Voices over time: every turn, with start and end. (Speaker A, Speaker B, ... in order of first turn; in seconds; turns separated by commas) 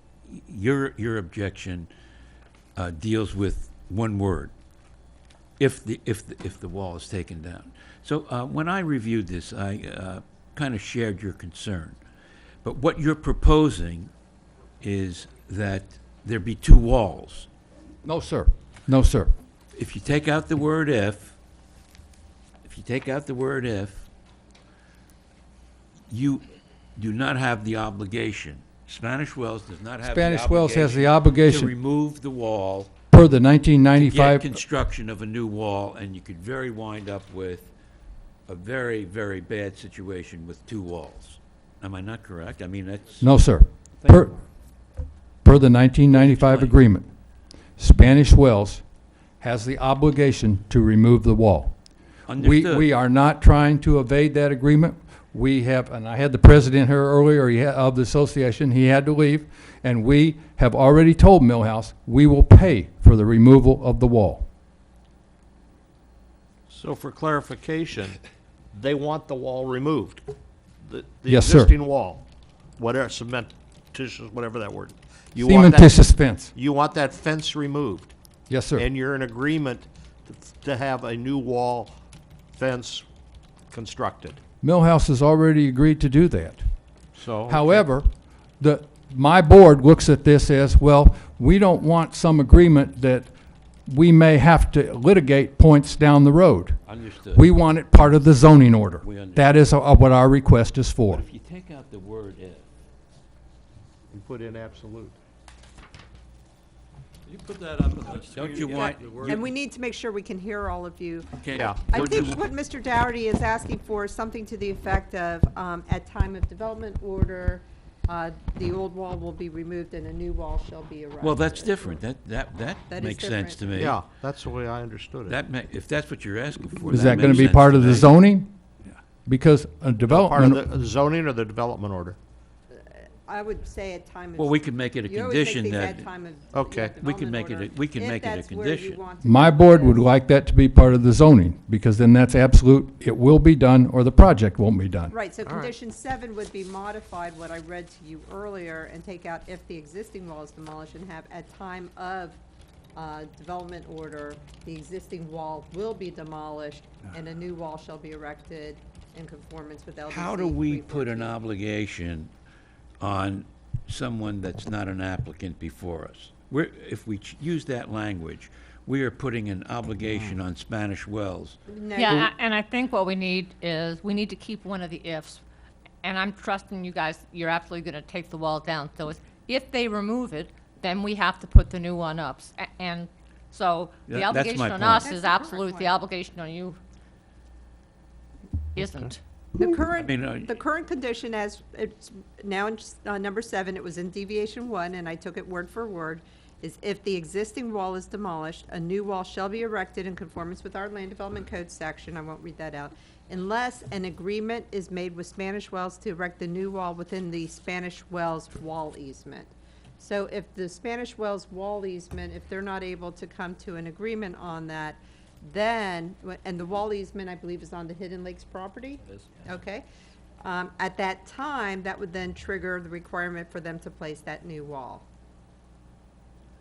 Speaker A: 0.3-1.9, Speaker A: 2.8-4.5, Speaker A: 5.6-12.0, Speaker A: 12.6-14.1, Speaker A: 14.8-17.5, Speaker B: 18.0-19.3, Speaker A: 19.7-21.4, Speaker A: 22.6-24.1, Speaker A: 26.1-32.9, Speaker B: 30.0-31.7, Speaker B: 33.1-34.6, Speaker A: 33.9-37.7, Speaker A: 38.5-43.2, Speaker B: 43.2-44.3, Speaker B: 45.4-47.0, Speaker A: 46.1-46.8, Speaker B: 47.8-48.8, Speaker B: 49.4-51.7, Speaker A: 52.3-52.9, Speaker B: 52.4-64.5, Speaker C: 66.7-68.2, Speaker C: 68.7-70.3, Speaker C: 70.8-72.2, Speaker B: 71.3-71.7, Speaker C: 72.8-78.1, Speaker B: 75.4-76.5, Speaker B: 78.5-78.8, Speaker C: 78.7-81.9, Speaker C: 82.5-83.0, Speaker C: 83.7-84.4, Speaker B: 84.6-86.6, Speaker C: 87.1-87.8, Speaker B: 87.5-88.1, Speaker B: 88.6-93.3, Speaker B: 93.9-101.2, Speaker A: 96.8-97.5, Speaker A: 99.0-99.5, Speaker A: 101.1-102.7, Speaker C: 104.1-105.2, Speaker D: 107.2-109.4, Speaker A: 108.3-109.4, Speaker E: 108.7-122.0, Speaker A: 111.4-112.4, Speaker C: 111.5-111.8, Speaker A: 121.2-124.0, Speaker E: 122.9-123.9, Speaker C: 123.7-125.4, Speaker A: 125.3-128.1, Speaker B: 126.8-128.5, Speaker C: 127.1-127.5, Speaker B: 129.2-130.6, Speaker C: 130.1-132.2, Speaker E: 132.7-140.1, Speaker A: 134.3-136.1, Speaker C: 136.5-137.0, Speaker A: 137.0-139.0, Speaker B: 139.2-145.1, Speaker E: 145.1-152.4, Speaker C: 145.4-145.7, Speaker E: 152.9-161.4, Speaker A: 160.1-162.3, Speaker A: 163.0-171.6, Speaker E: 171.7-172.3, Speaker F: 171.9-175.4, Speaker F: 176.0-186.8, Speaker A: 184.1-185.1, Speaker E: 185.0-185.9, Speaker F: 188.8-189.2, Speaker E: 189.6-219.8, Speaker A: 189.9-190.5, Speaker E: 220.4-225.0